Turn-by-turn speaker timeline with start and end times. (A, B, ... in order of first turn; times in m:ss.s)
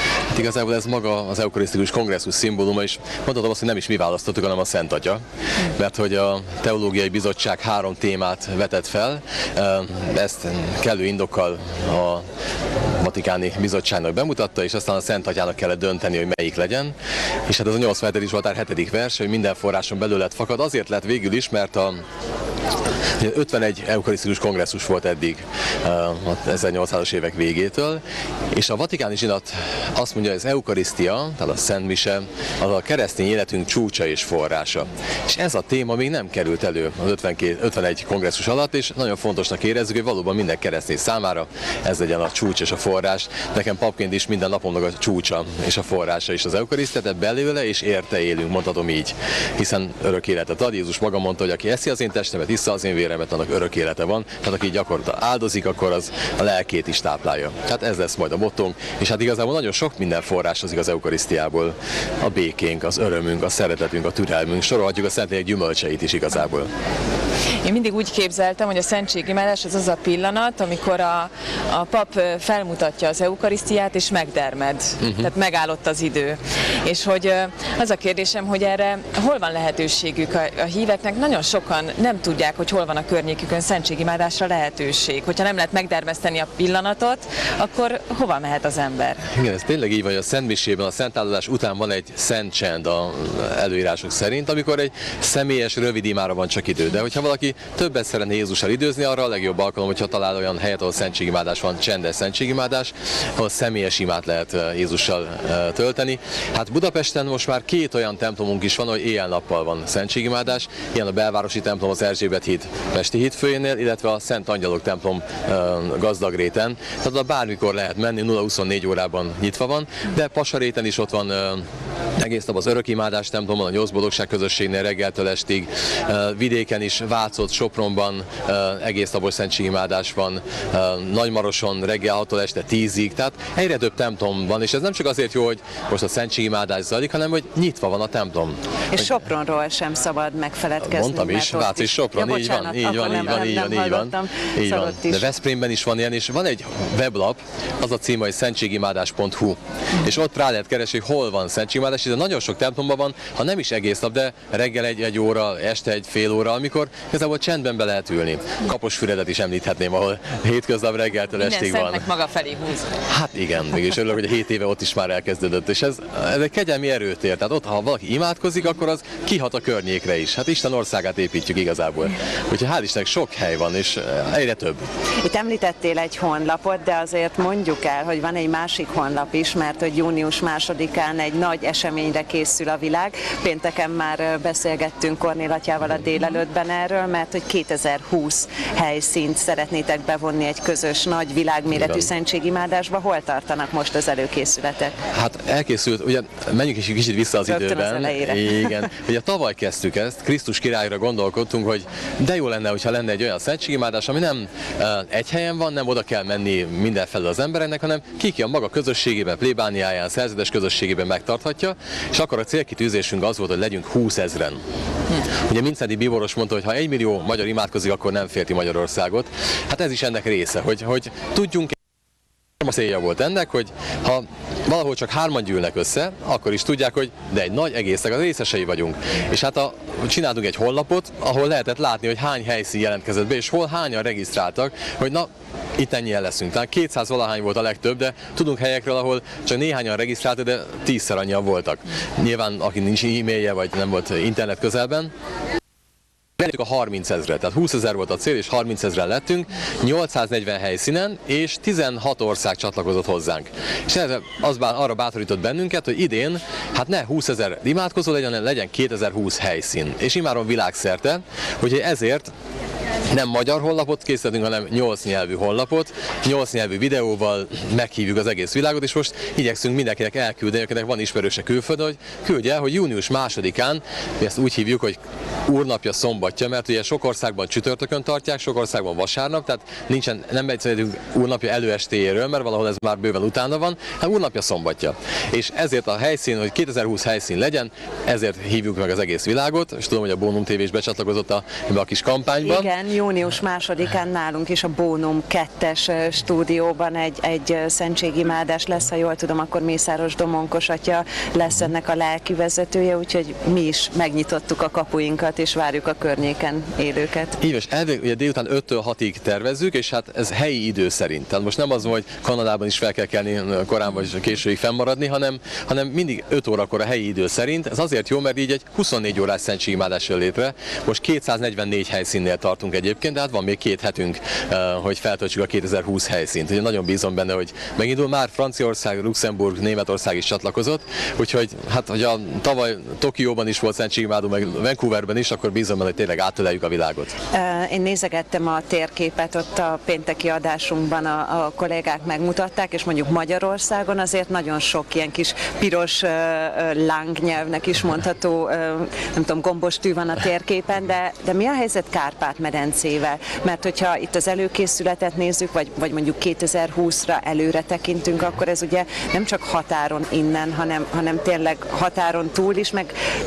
0:00.3-0:12.3 A
0:12.9-0:17.0 A
0:17.5-0:22.0 A
0:23.2-0:28.0 A
0:28.5-1:06.7 A
1:07.6-1:29.2 B
1:15.0-1:15.3 A
1:29.3-2:01.6 A
2:02.2-2:18.6 A
2:18.9-2:25.3 C
2:20.9-2:42.1 A
2:41.4-2:42.9 B
2:43.1-2:54.8 A
2:55.2-3:15.0 C
3:11.7-3:12.1 A
3:15.1-3:34.6 A
3:17.4-3:18.5 C
3:35.3-3:41.8 A
3:42.6-4:05.1 A
4:06.4-4:22.3 A
4:23.1-4:52.7 A
4:52.4-5:07.4 C
5:07.4-5:37.2 A
5:37.3-6:02.9 C